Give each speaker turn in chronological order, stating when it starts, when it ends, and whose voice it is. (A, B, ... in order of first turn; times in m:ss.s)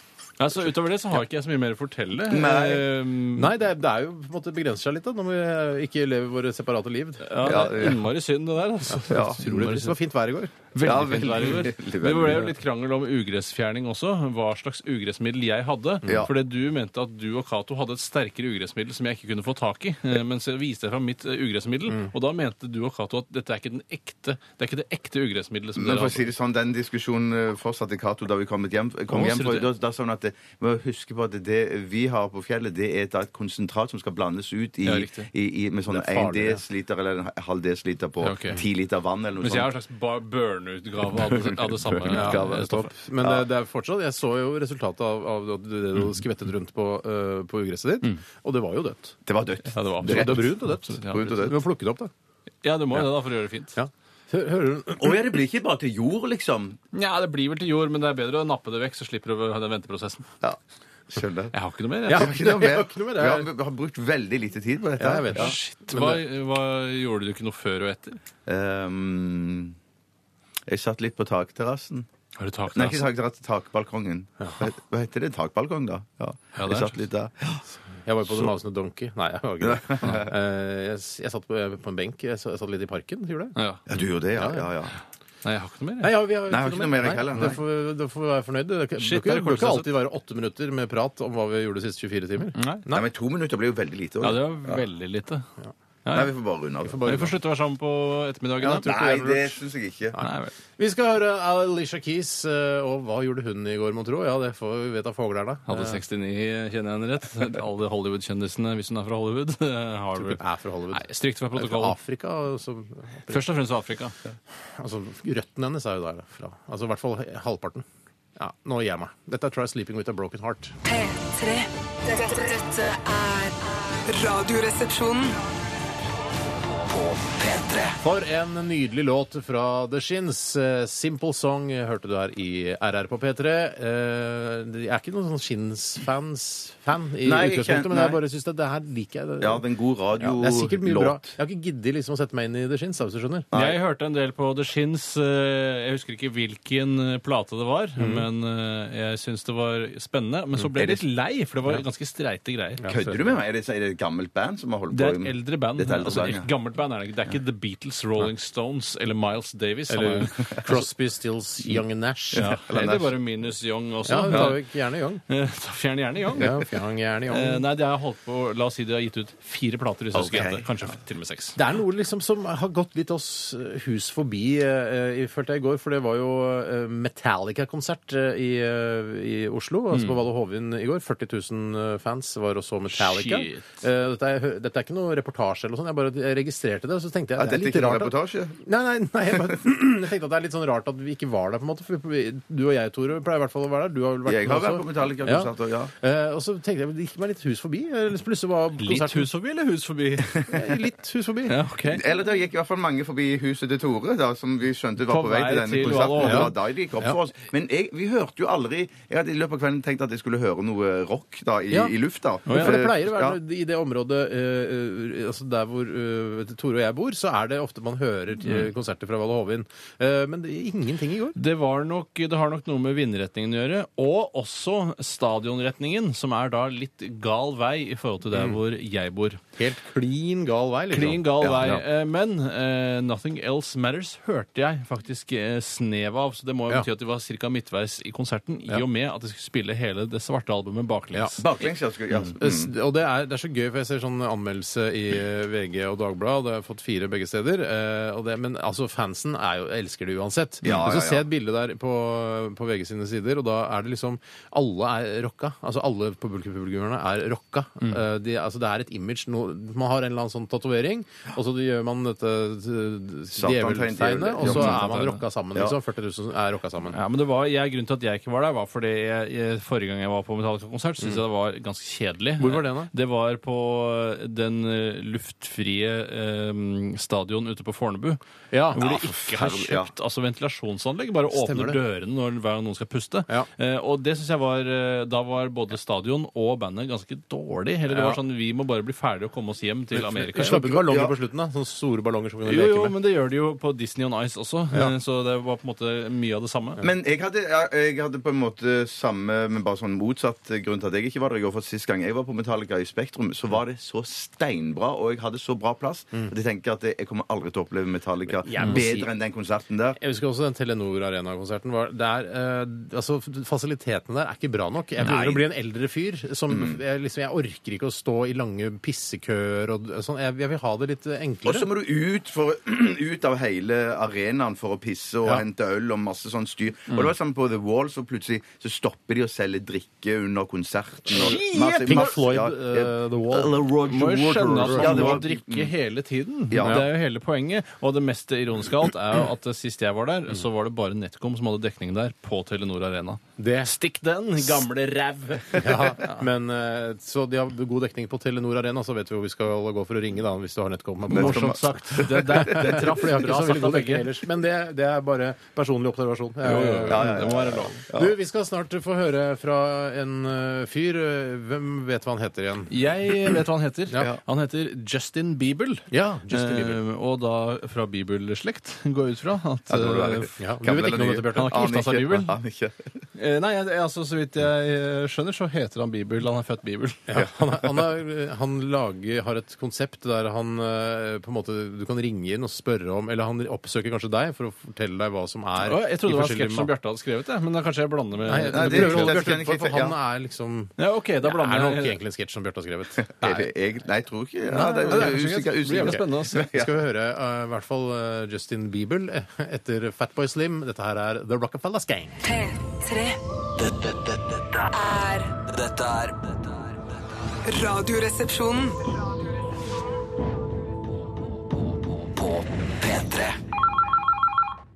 0:00.4-0:03.5 A
0:02.3-0:02.9 B
0:03.4-0:07.6 C
0:07.2-0:10.0 A
0:07.4-0:08.0 B
0:09.1-0:09.4 B
0:09.1-0:10.6 C
0:10.7-0:26.3 A
0:10.8-0:12.5 B
0:16.0-0:16.3 B
0:25.8-0:39.7 B
0:29.1-0:29.7 A
0:34.8-0:35.3 A
0:35.9-0:36.6 C
0:38.2-0:38.6 A
0:39.4-0:42.9 A
0:41.1-0:43.4 B
0:42.1-0:49.2 C
0:49.3-0:50.5 B
0:49.7-0:51.3 A
0:50.0-0:52.1 C
0:51.1-0:51.6 B
0:52.6-0:53.8 A
0:53.7-0:55.2 C
0:55.0-0:56.8 B
0:56.9-1:00.3 A
1:00.4-1:01.5 B
1:01.5-1:02.3 A
1:02.1-1:03.5 C
1:02.1-1:05.6 B
1:05.0-1:06.2 C
1:05.3-1:08.2 A
1:08.5-1:09.8 B
1:10.7-1:12.1 B
1:12.4-1:13.1 A
1:12.7-1:17.6 B
1:16.6-1:17.0 A
1:18.0-1:23.6 C
1:19.6-1:20.3 B
1:23.6-1:23.8 A
1:23.9-1:25.0 B
1:24.4-1:24.7 C
1:25.4-1:26.1 A
1:26.0-1:33.0 C
1:26.5-1:27.6 B
1:29.0-1:29.9 A
1:32.6-1:32.8 A
1:32.9-1:34.8 B
1:34.2-1:35.5 A
1:36.0-1:36.3 A
1:36.1-1:37.3 B
1:36.9-1:37.3 C
1:37.0-1:39.0 A
1:38.6-1:40.2 B
1:38.7-1:39.5 C
1:40.2-1:46.0 C
1:40.2-1:40.5 A
1:45.7-1:50.4 A
1:50.2-1:53.5 C
1:50.9-1:52.0 A
1:53.3-1:54.2 A
1:54.8-1:57.9 C
1:58.4-2:00.8 C
2:00.8-2:05.4 D
2:06.8-2:08.0 E
2:08.0-2:19.6 C
2:17.2-2:18.2 B
2:19.4-2:21.4 B
2:20.2-2:23.5 C
2:23.5-2:23.8 B
2:23.5-2:32.9 A
2:28.0-2:28.3 C
2:30.8-2:31.0 B
2:32.8-2:33.2 C
2:32.9-2:36.5 B
2:34.9-2:40.8 A
2:39.9-2:42.5 C
2:42.3-2:43.2 B
2:42.4-2:44.6 A
2:44.0-2:45.2 C
2:45.3-2:46.6 A
2:46.4-2:47.6 C
2:47.3-2:51.6 A
2:50.1-2:50.7 B
2:51.6-3:19.3 C
3:02.9-3:03.8 A
3:07.4-3:08.6 B
3:14.3-3:15.9 B
3:18.8-3:20.6 A
3:20.5-3:21.6 C
3:21.5-3:22.0 A
3:21.9-3:33.4 B
3:25.0-3:26.5 A
3:26.2-3:27.2 C
3:32.5-3:32.8 A
3:32.5-3:41.4 C
3:41.4-3:49.4 A
3:48.3-3:48.6 C
3:49.6-3:51.8 C
3:50.9-4:01.5 A
4:01.4-4:02.7 B
4:02.4-4:27.0 C
4:10.6-4:11.2 B
4:23.3-4:24.9 B
4:24.4-4:25.2 A
4:26.9-4:38.2 A
4:32.4-4:32.9 C
4:38.5-4:38.8 C
4:38.7-4:50.6 A
4:38.8-4:39.9 B
4:41.3-4:41.8 C
4:47.9-4:48.2 C
4:50.0-4:53.0 C
4:50.4-4:51.1 B
4:52.4-4:56.8 A
4:56.8-5:10.0 B
5:08.3-5:09.1 C
5:10.0-5:21.7 C
5:15.0-5:15.4 B
5:16.5-5:16.8 B
5:21.4-5:35.7 B
5:31.1-5:33.6 C
5:31.1-5:32.1 A
5:33.8-5:46.0 A
5:34.6-5:35.2 C
5:36.5-5:36.8 B
5:36.6-5:36.9 C
5:43.4-5:43.7 C
5:45.6-6:02.7 C
5:51.1-5:52.9 B
5:51.1-5:54.1 A
5:56.4-5:57.8 A
5:56.9-5:58.1 B
6:02.7-6:10.4 A
6:05.9-6:06.8 C
6:09.7-6:12.9 B
6:10.4-6:11.8 C
6:11.3-6:12.4 A
6:13.2-6:17.1 A
6:17.1-6:26.7 C
6:25.6-6:29.2 A
6:28.3-6:33.5 C
6:28.4-6:30.0 B
6:30.8-6:32.0 A
6:33.0-6:36.7 B
6:34.5-6:42.2 C
6:34.8-6:36.5 A
6:42.2-6:43.2 D
6:43.6-6:44.8 E
6:44.7-6:45.3 D
6:45.5-6:46.8 E
6:47.5-6:48.9 D
6:52.0-6:53.4 E